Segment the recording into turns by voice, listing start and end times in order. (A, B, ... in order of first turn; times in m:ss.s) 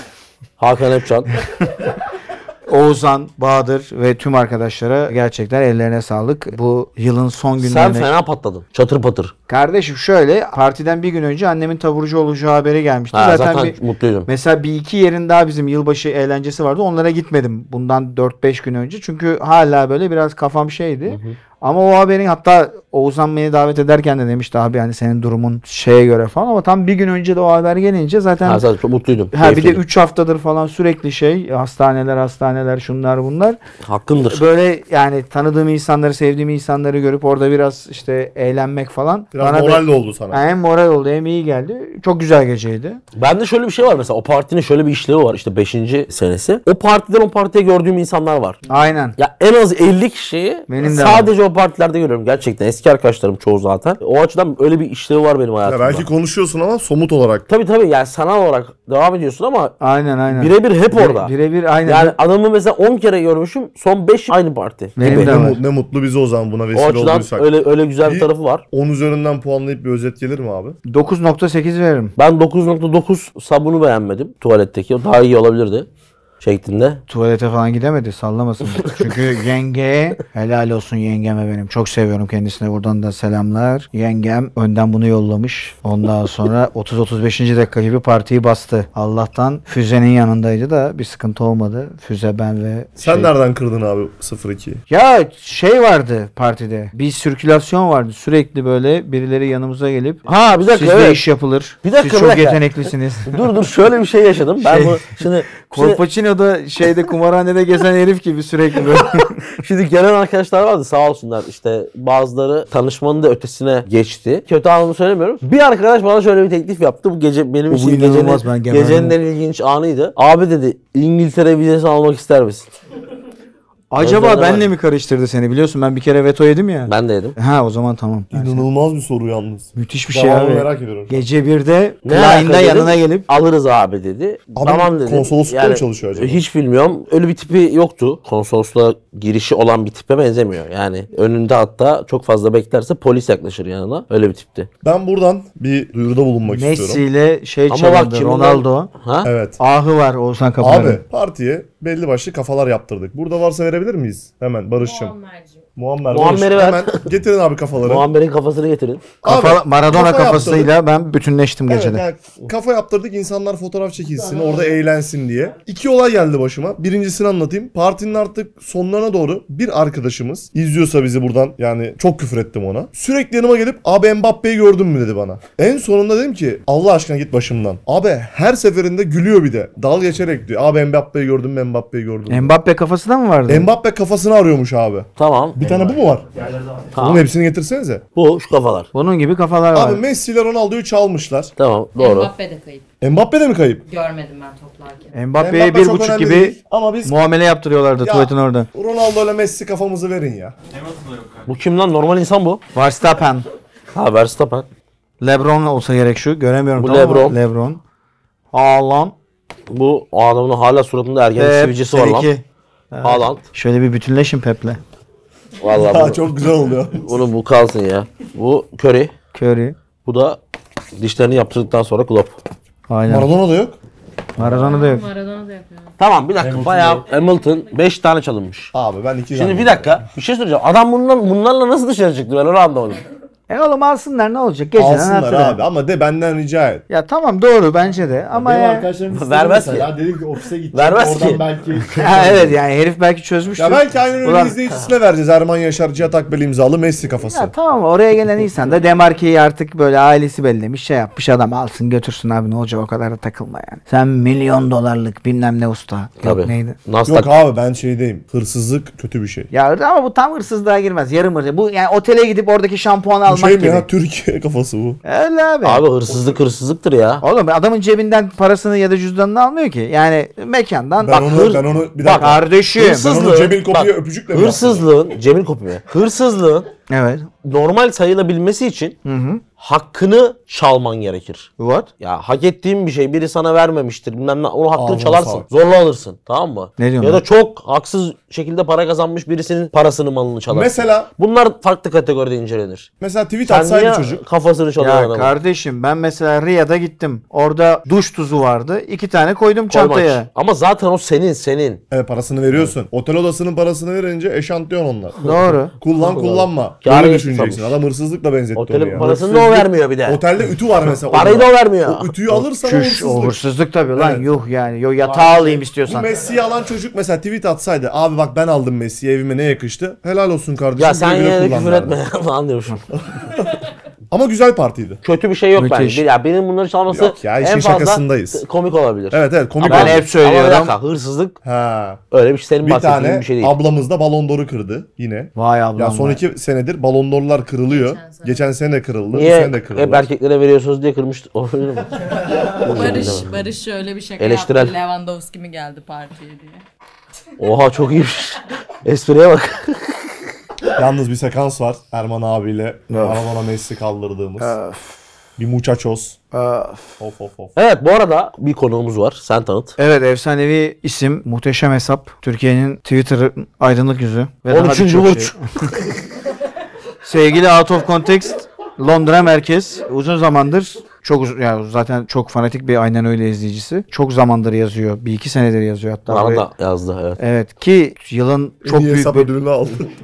0:00.6-0:01.4 A
0:02.7-0:08.1 B
0:07.6-0:09.3 A
0:09.5-0:28.6 B
0:13.1-0:14.3 A
0:21.1-0:21.4 A
0:28.4-0:29.8 A
0:29.3-0:33.6 B
0:33.8-0:34.4 A
0:34.3-0:43.0 B
0:39.3-0:40.4 C
0:43.2-0:48.6 A
0:48.7-0:49.2 B
0:49.2-0:56.1 A
0:50.7-0:51.3 B
0:55.6-0:57.5 C
0:57.5-0:59.8 A
0:59.8-1:02.2 B
1:00.3-1:01.3 A
1:01.9-1:05.4 A
1:05.0-1:05.6 B
1:05.0-1:07.5 C
1:06.7-1:08.6 A
1:08.0-1:10.8 C
1:10.9-1:12.1 B
1:12.2-1:15.9 A
1:16.4-1:17.0 A
1:17.1-1:33.3 B
1:18.8-1:19.2 A
1:33.0-1:34.8 C
1:34.9-1:43.5 B
1:40.3-1:41.2 A
1:41.8-1:46.0 A
1:44.6-1:49.4 B
1:48.9-2:02.7 A
1:57.7-1:59.2 B
2:03.9-2:08.6 B
2:04.0-2:04.7 A
2:06.9-2:07.4 A
2:08.3-2:11.2 C
2:09.8-2:13.2 B
2:12.0-2:24.7 A
2:14.6-2:16.4 C
2:24.8-2:27.0 C
2:26.5-2:28.9 B
2:27.7-2:29.3 A
2:29.2-2:29.6 C
2:29.6-2:31.0 B
2:30.6-2:35.2 C
2:34.8-2:35.6 D
2:35.8-2:38.1 C
2:36.1-2:37.1 A
2:37.8-2:39.1 A
2:39.2-2:40.7 C
2:39.2-2:42.0 B
2:41.7-3:02.5 C
3:02.3-3:03.7 B
3:03.5-3:06.3 C
3:05.2-3:05.6 A
3:05.6-3:06.9 E
3:06.9-3:07.3 A
3:07.0-3:08.0 C
3:08.2-3:08.9 A
3:08.9-3:10.0 B
3:09.7-3:11.5 C
3:11.6-3:12.3 A
3:12.0-3:12.8 D
3:13.0-3:13.8 C
3:13.9-3:15.2 D
3:15.1-3:18.7 B
3:15.4-3:17.2 C
3:18.0-3:20.6 C
3:21.5-3:22.6 A
3:22.7-3:23.5 B
3:23.9-3:24.7 A
3:25.2-3:27.8 B
3:26.8-3:27.4 A
3:28.5-3:29.2 B
3:29.7-3:32.3 A
3:31.4-3:34.8 B
3:33.0-3:33.4 A
3:35.6-3:36.3 A
3:35.7-3:37.2 C
3:36.9-3:39.1 A
3:39.4-3:39.8 B
3:40.0-3:40.4 A
3:41.0-3:42.4 A
3:42.9-3:43.3 B
3:43.1-3:43.8 C
3:44.4-3:45.1 B
3:44.6-3:45.9 D
3:46.0-3:48.7 A
3:46.4-3:47.1 E
3:48.7-3:50.0 C
3:49.4-3:53.0 A
3:53.5-3:55.6 B
3:54.8-3:56.8 C
3:56.9-3:58.9 B
3:58.3-4:02.6 E
3:59.1-4:00.1 A
4:00.7-4:01.5 A
4:01.9-4:04.6 B
4:03.6-4:07.5 C
4:07.3-4:16.8 B
4:16.2-4:17.3 A
4:17.1-4:19.5 C
4:19.5-4:23.9 B
4:23.3-4:25.0 C
4:25.0-4:25.8 B
4:25.6-4:27.2 A
4:27.2-4:31.2 B
4:31.0-4:34.9 C
4:31.1-4:36.7 A
4:32.2-4:33.1 B
4:36.9-4:37.3 B
4:37.4-4:39.0 A
4:39.0-4:39.4 B
4:39.6-4:41.5 A
4:41.6-4:41.9 B
4:42.0-4:52.9 A
4:44.8-4:45.5 C
4:46.8-4:47.2 B
4:50.5-4:51.1 C
4:53.0-4:54.2 C
4:53.5-4:55.3 A
4:54.8-5:00.3 B
4:59.7-5:01.8 A
5:01.9-5:05.2 C
5:05.2-5:06.2 B
5:05.8-5:14.2 C
5:06.8-5:07.8 A
5:08.6-5:10.2 A
5:09.0-5:09.3 B
5:11.1-5:12.1 A
5:12.3-5:16.1 B
5:15.0-5:22.0 C
5:20.8-5:22.8 A
5:23.1-5:23.6 C
5:24.1-5:25.0 C
5:25.0-5:31.4 A
5:25.6-5:26.0 B
5:26.9-5:28.4 C
5:29.1-5:30.1 C
5:29.6-5:30.7 B
5:31.4-5:32.0 C
5:32.1-5:33.6 A
5:32.6-5:40.1 C
5:35.4-5:36.2 B
5:37.7-5:38.4 D
5:39.1-5:43.3 A
5:42.3-5:46.6 D
5:44.2-5:44.8 A
5:47.4-5:50.1 A
5:50.7-5:54.6 C
5:52.9-5:53.2 B
5:54.4-5:54.9 B
5:55.4-5:56.2 C
5:56.3-5:57.0 B
5:57.0-5:57.5 C
5:57.6-5:59.8 A
5:59.8-6:05.4 B
6:04.5-6:05.3 A
6:07.0-6:16.5 B
6:16.1-6:17.2 A
6:17.2-6:19.3 B
6:18.6-6:19.9 C